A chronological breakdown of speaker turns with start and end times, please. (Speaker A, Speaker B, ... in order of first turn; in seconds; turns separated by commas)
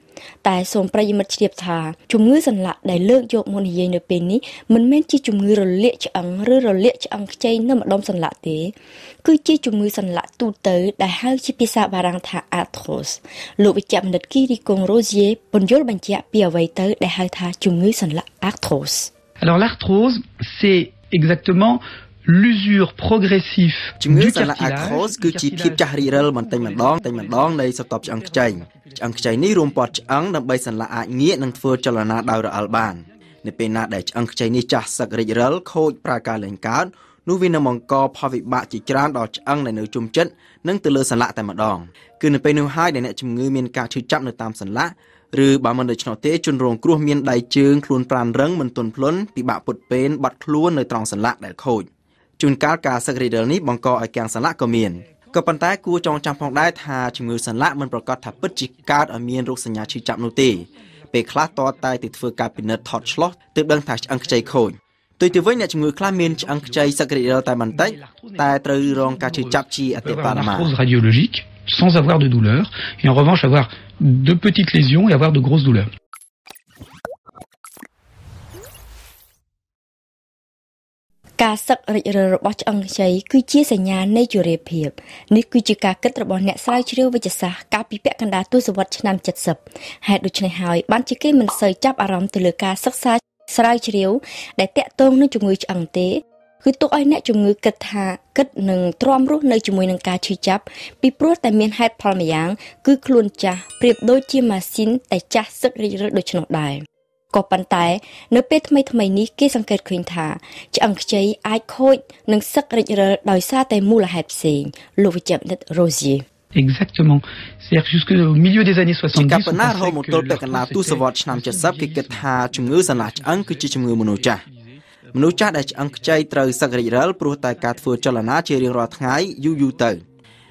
Speaker A: 0.4-8.7, Speaker A: 9.2-19.1, Speaker B: 19.4-30.3, Speaker C: 24.0-51.9, Speaker B: 31.4-33.0, Speaker C: 52.4-70.7, Speaker B: 56.0-56.3, Speaker B: 58.3-59.1, Speaker B: 59.9-63.3, Speaker B: 63.9-64.7, Speaker B: 65.2-75.9, Speaker A: 81.4-116.2, Speaker B: 116.5-130.0, Speaker C: 119.1-124.4, Speaker C: 125.1-130.0